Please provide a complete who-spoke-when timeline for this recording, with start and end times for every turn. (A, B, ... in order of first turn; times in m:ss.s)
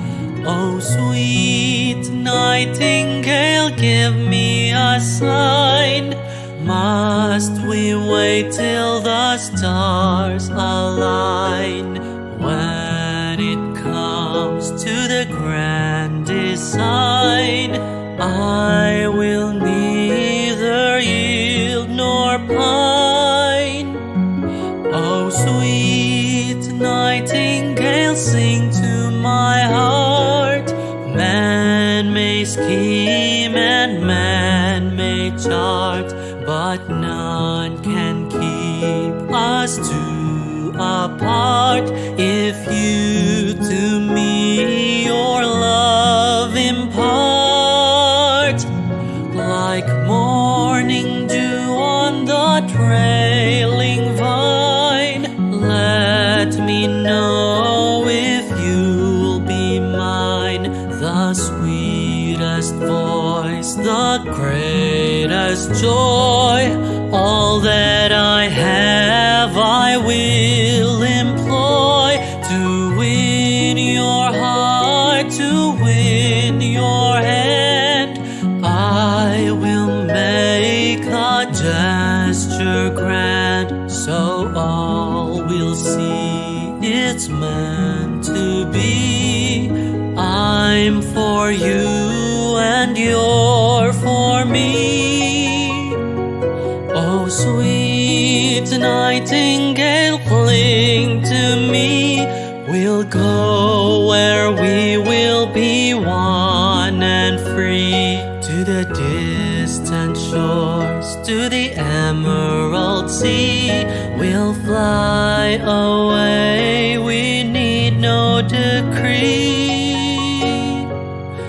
0:00.4-0:24.3 A
0:24.8-0:48.8 A
0:49.3-1:36.2 A
1:36.9-2:01.0 A